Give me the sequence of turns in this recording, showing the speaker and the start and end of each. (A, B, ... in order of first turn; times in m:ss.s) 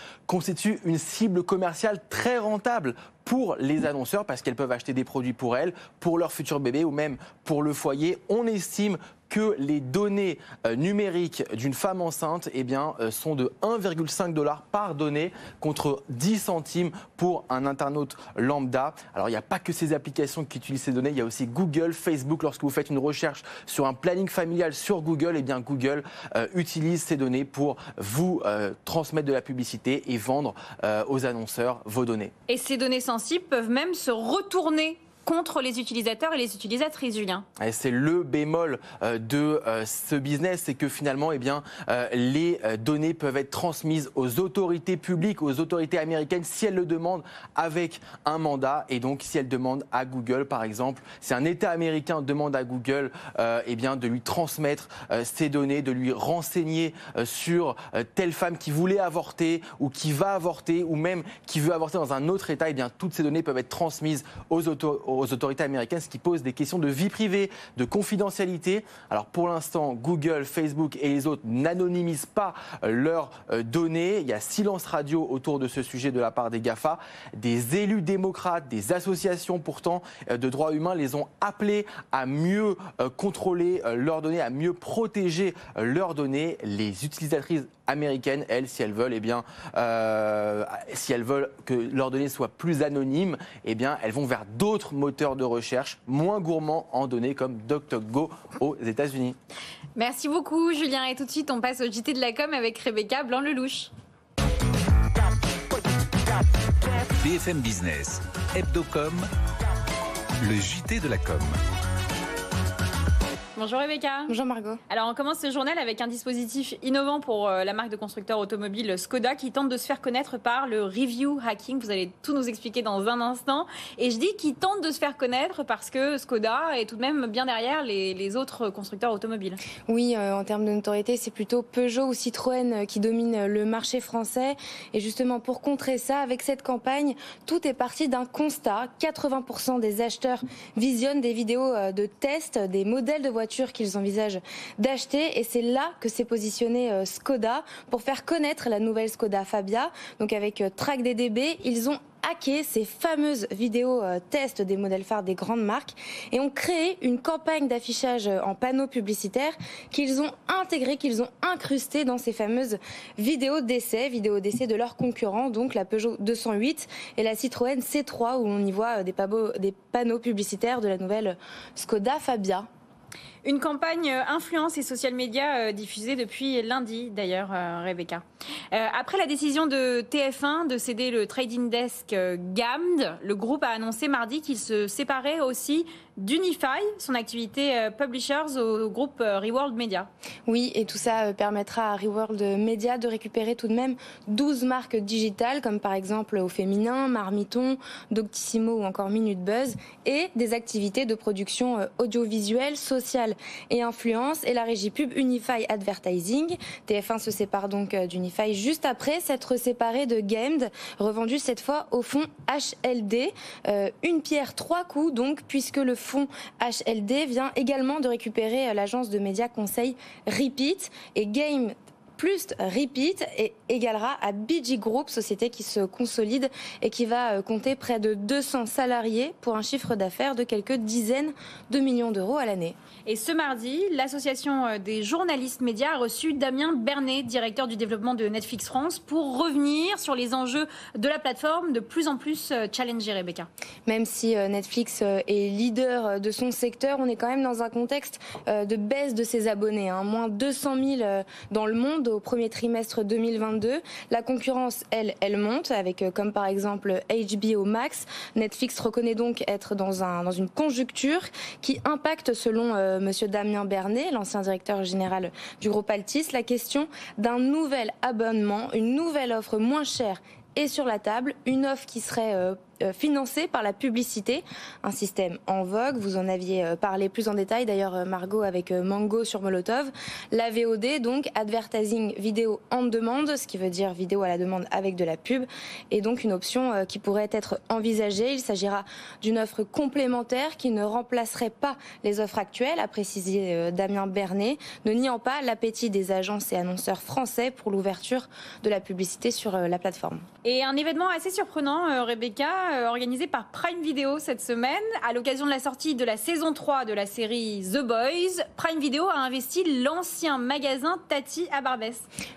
0:00.3-0:32.3 A
0:32.5-0:37.5 B
0:37.6-1:39.4 A
1:40.0-1:43.9 B
1:47.2-1:49.3 C
1:50.4-1:51.6 C
1:53.6-1:54.3 B
1:54.3-1:54.8 D
1:54.9-2:09.6 B
2:09.9-2:52.7 D
2:53.4-3:10.1 B
3:10.5-3:52.8 D
3:53.0-4:03.5 B
4:03.9-5:00.2 D
5:00.4-5:12.0 B